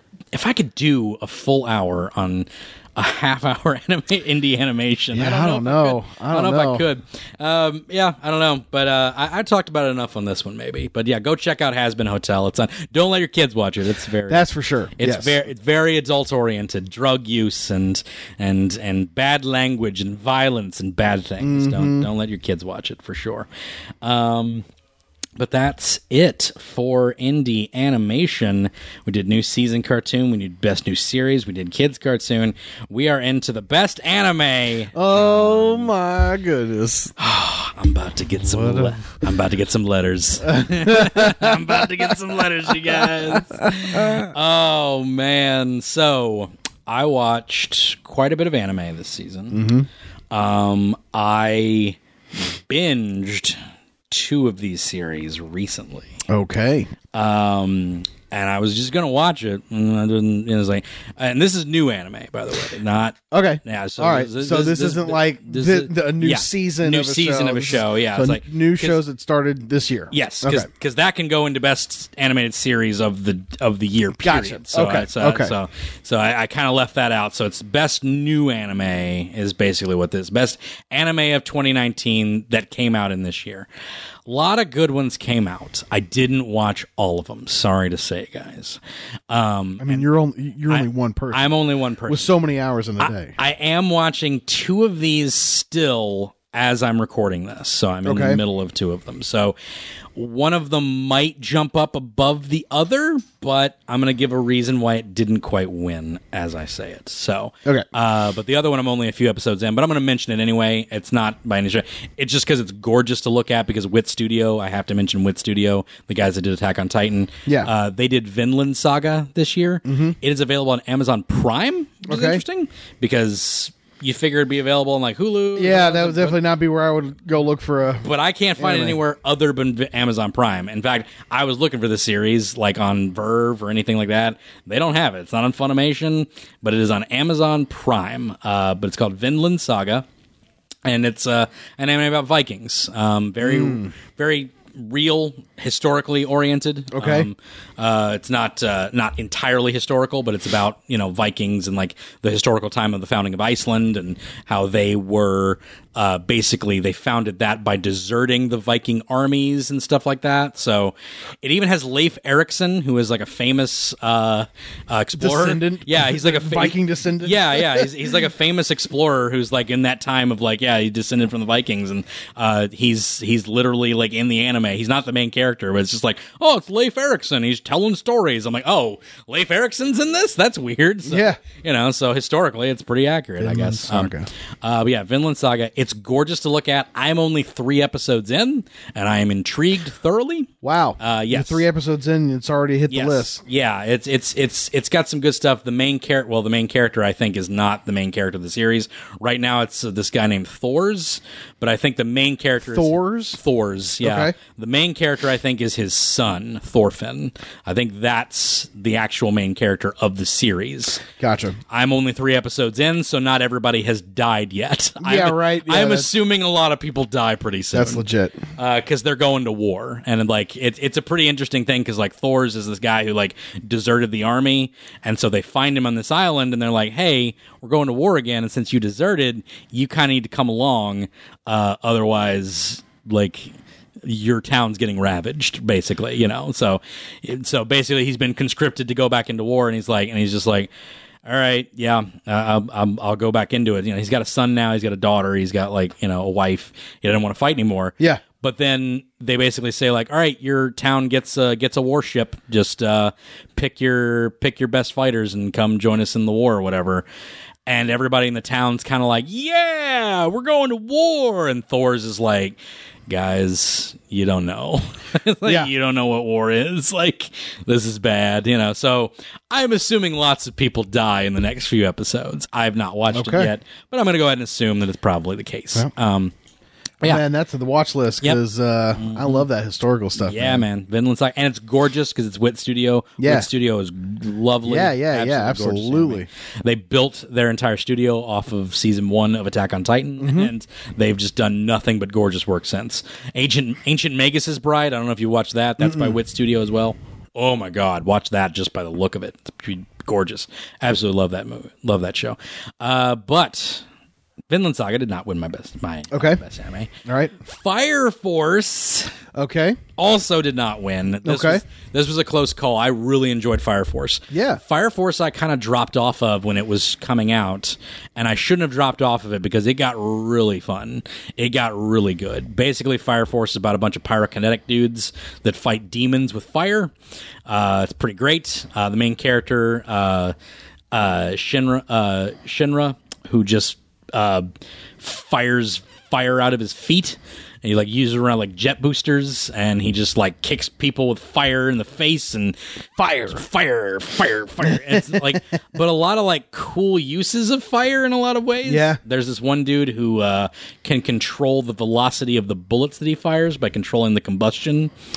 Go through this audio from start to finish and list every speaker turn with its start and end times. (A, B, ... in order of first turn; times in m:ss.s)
0:00.3-0:14.5 A
0:05.1-0:06.8 B
0:14.3-0:15.4 B
0:15.0-0:23.5 A
0:21.4-0:22.1 B
0:24.0-0:24.6 A
0:25.4-0:35.9 A
0:34.9-0:37.1 B
0:37.2-0:49.6 A
0:38.4-0:39.0 B
0:40.5-0:44.3 B
0:49.5-0:49.9 B
0:50.3-0:52.0 A
0:52.7-0:53.6 A
0:54.1-0:56.2 A
0:56.3-0:56.9 B
0:57.1-1:09.0 A
1:03.3-1:10.7 B
1:10.1-1:23.7 A
1:14.2-1:15.5 B
1:24.3-1:30.1 A
1:29.8-1:31.4 B
1:30.7-1:32.3 A
1:32.1-1:33.3 B
1:33.0-1:39.6 A
1:38.0-1:38.4 B
1:40.2-2:06.4 A
1:59.8-2:00.2 B
2:02.1-2:02.4 B
2:05.6-2:09.0 B
2:08.0-2:20.1 A
2:20.8-3:11.6 A
2:23.4-2:23.9 B
2:26.9-2:27.3 B
2:45.2-2:47.9 B
3:01.0-3:01.4 B
3:03.4-3:04.3 B
3:10.6-3:13.4 B
3:12.9-3:31.0 A
3:22.7-3:23.4 B
3:24.0-3:24.4 B
3:31.2-3:31.6 B
3:31.7-3:38.0 A
3:35.0-3:36.1 B
3:37.7-3:38.4 B
3:38.6-4:00.7 A
4:01.2-4:17.1 A
4:17.7-4:22.6 A
4:23.1-4:36.3 A
4:33.1-4:33.5 B
4:37.0-4:40.6 B
4:39.0-4:39.4 A
4:40.2-5:03.8 A
4:43.2-4:43.5 B
4:44.7-4:46.3 B
4:50.2-4:50.5 B
4:55.8-4:56.2 B
5:04.5-5:09.2 A
5:06.1-5:06.4 B
5:07.0-5:07.3 B
5:09.3-5:09.8 B
5:10.0-5:26.9 A
5:11.2-5:11.6 B
5:14.3-5:14.6 B
5:27.5-5:30.3 A
5:30.9-5:34.5 A
5:35.0-5:54.9 A
5:44.6-5:45.4 B
5:48.6-5:49.0 B